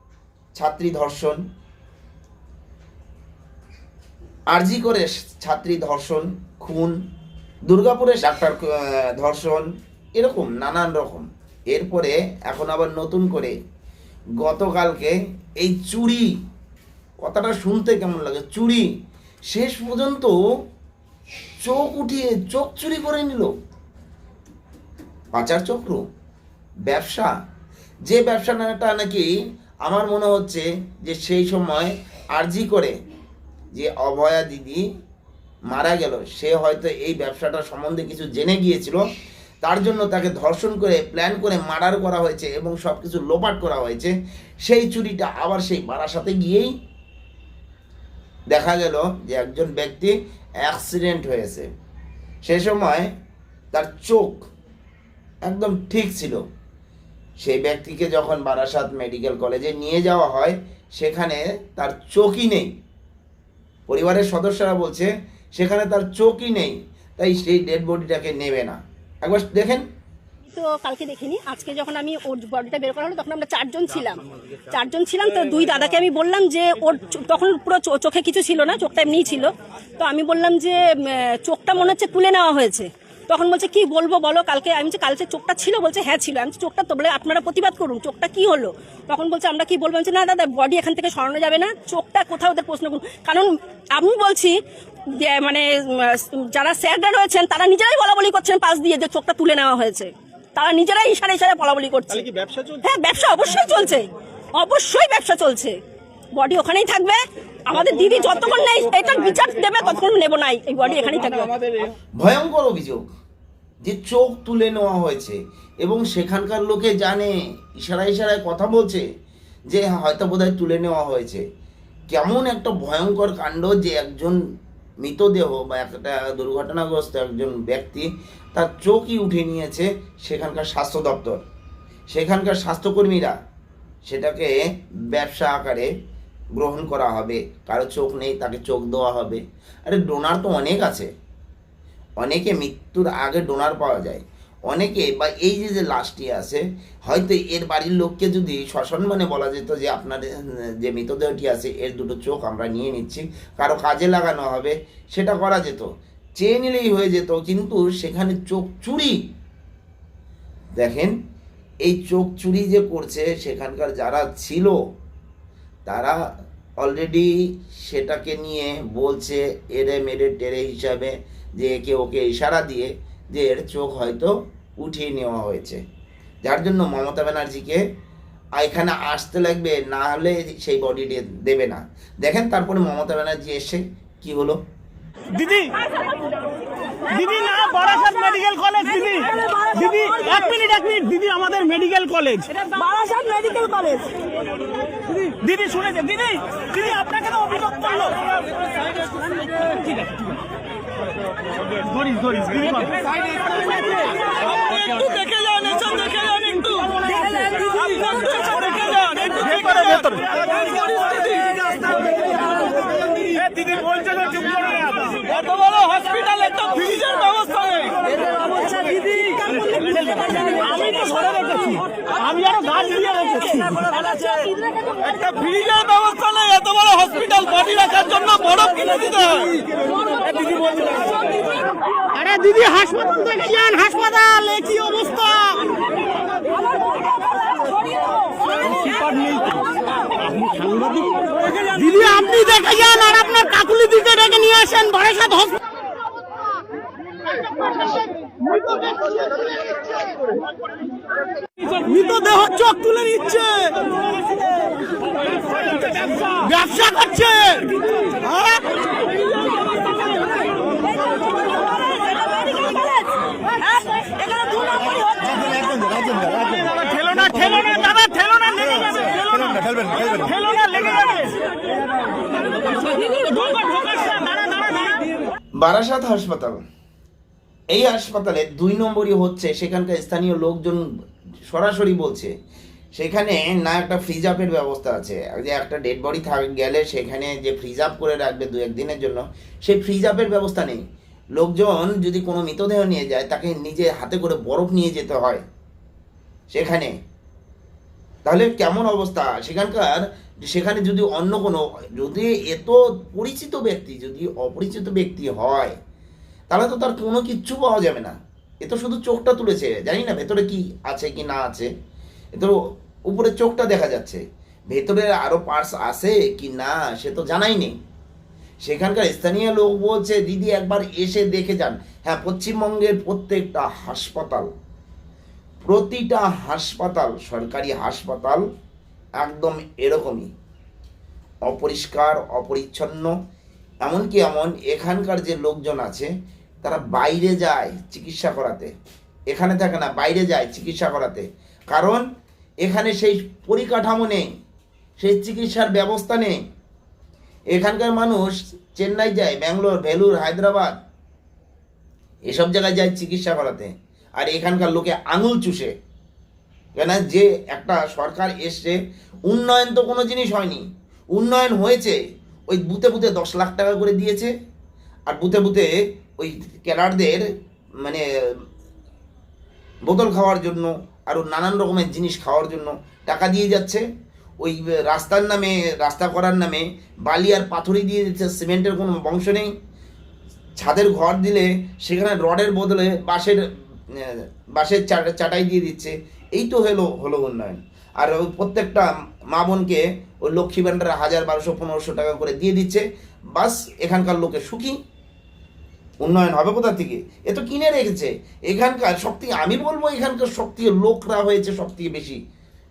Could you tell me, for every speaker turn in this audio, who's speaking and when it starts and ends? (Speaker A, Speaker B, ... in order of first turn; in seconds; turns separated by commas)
Speaker A: 0.6-1.4, Speaker A: 4.5-7.0, Speaker A: 7.7-13.5, Speaker A: 14.4-16.3, Speaker A: 17.2-18.9, Speaker A: 19.5-20.3, Speaker A: 21.6-23.5, Speaker A: 25.3-26.0, Speaker A: 26.9-27.3, Speaker A: 28.1-29.3, Speaker A: 29.8-32.9, Speaker A: 33.7-34.8, Speaker A: 35.7-39.0, Speaker A: 39.6-46.7, Speaker A: 48.5-51.7, Speaker A: 52.4-53.1, Speaker A: 53.7-54.4, Speaker A: 55.5-56.4, Speaker A: 57.4-62.7, Speaker A: 63.9-69.8, Speaker B: 70.5-94.5, Speaker B: 95.2-102.3, Speaker C: 102.3-102.8, Speaker B: 102.8-105.8, Speaker B: 106.3-111.6, Speaker A: 112.2-113.1, Speaker A: 113.8-119.0, Speaker A: 119.7-121.4, Speaker A: 122.1-124.4, Speaker A: 125.0-131.4, Speaker A: 132.1-133.3, Speaker A: 134.1-135.9, Speaker A: 136.6-141.1, Speaker A: 142.2-155.8, Speaker A: 156.4-159.2, Speaker A: 160.8-161.2, Speaker A: 161.8-164.8, Speaker A: 165.8-166.2, Speaker A: 166.8-175.8, Speaker A: 176.4-177.8, Speaker A: 178.6-184.6, Speaker C: 185.3-185.7, Speaker C: 187.1-192.6, Speaker B: 189.3-190.3, Speaker B: 192.5-194.1, Speaker C: 195.2-198.3, Speaker C: 199.9-200.2, Speaker C: 201.8-203.0, Speaker C: 204.6-207.1, Speaker C: 207.8-210.3, Speaker B: 208.2-209.1, Speaker C: 213.3-218.1, Speaker B: 215.5-217.5, Speaker B: 218.3-221.5, Speaker C: 219.8-223.9, Speaker B: 223.9-225.1, Speaker C: 225.0-229.6, Speaker B: 230.6-231.3, Speaker C: 232.1-235.7, Speaker B: 237.4-238.1, Speaker C: 238.8-239.6, Speaker C: 240.3-241.1, Speaker C: 241.6-245.6, Speaker C: 251.6-253.8, Speaker C: 256.3-258.6, Speaker B: 261.8-265.8, Speaker C: 266.3-271.3, Speaker B: 272.9-274.7, Speaker C: 273.2-274.9, Speaker A: 275.6-276.6, Speaker A: 277.7-280.8, Speaker A: 281.5-282.3, Speaker A: 283.0-290.8, Speaker A: 291.4-295.4, Speaker A: 296.5-296.9, Speaker A: 298.2-305.7, Speaker A: 306.5-311.7, Speaker A: 313.1-317.7, Speaker A: 318.6-324.5, Speaker A: 325.6-328.4, Speaker A: 329.2-330.3, Speaker A: 331.5-333.1, Speaker A: 333.8-336.1, Speaker A: 336.6-338.7, Speaker A: 339.3-342.0, Speaker A: 342.6-344.3, Speaker A: 345.0-346.4, Speaker A: 347.5-350.7, Speaker A: 352.3-355.7, Speaker A: 356.8-362.0, Speaker A: 362.5-364.3, Speaker A: 365.1-367.2, Speaker A: 367.8-368.4, Speaker A: 369.8-373.8, Speaker A: 374.4-379.5, Speaker A: 380.6-392.8, Speaker A: 393.3-394.8, Speaker A: 396.0-402.2